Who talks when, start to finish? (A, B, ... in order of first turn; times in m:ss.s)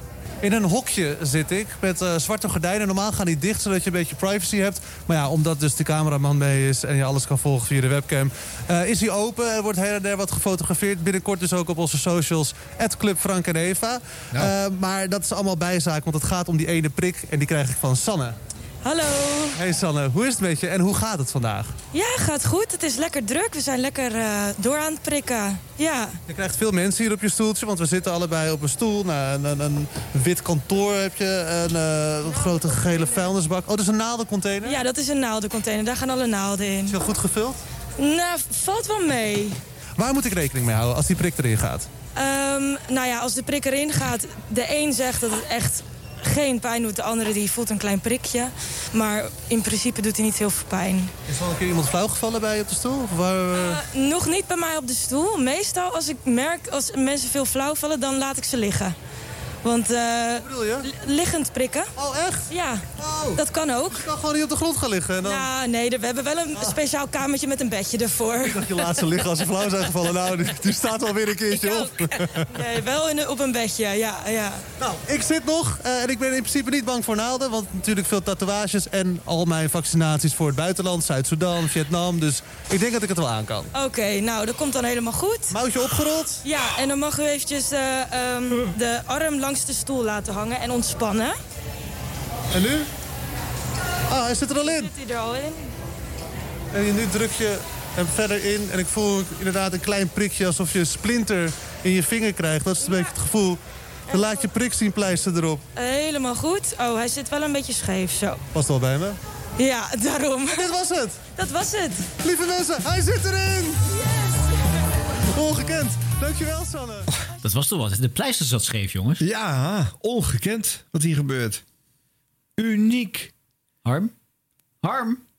0:00.4-0:18.4 A
0:18.8-0:19.5 B
0:19.5-0:21.7 A
0:21.9-0:26.2 B
0:26.3-0:34.8 A
0:34.6-0:37.0 B
0:36.9-0:37.6 A
0:38.0-0:39.6 B
0:40.0-0:41.9 A
0:42.1-0:51.1 B
0:51.3-0:53.8 A
0:53.6-0:58.9 B
0:59.6-1:01.9 B
1:00.4-1:00.8 A
1:02.0-1:02.4 A
1:02.5-1:02.8 B
1:03.0-1:03.4 A
1:03.4-1:04.0 B
1:03.9-1:05.5 A
1:05.2-1:08.7 B
1:08.5-1:12.4 A
1:12.5-1:14.6 B
1:14.8-1:23.7 A
1:23.7-1:25.5 B
1:25.5-1:26.4 A
1:26.4-1:31.4 B
1:32.5-1:32.9 A
1:34.1-1:34.9 A
1:34.7-1:35.7 B
1:36.7-1:45.6 A
1:45.7-1:48.4 B
1:48.5-1:49.2 A
1:49.6-1:50.6 B
1:50.6-1:51.2 A
1:51.3-1:52.1 B
1:52.2-1:53.8 A
1:55.3-1:57.1 A
1:57.4-1:59.2 C
1:59.2-2:01.6 D
2:02.6-2:03.3 D
2:03.8-2:04.1 C
2:04.8-2:05.2 C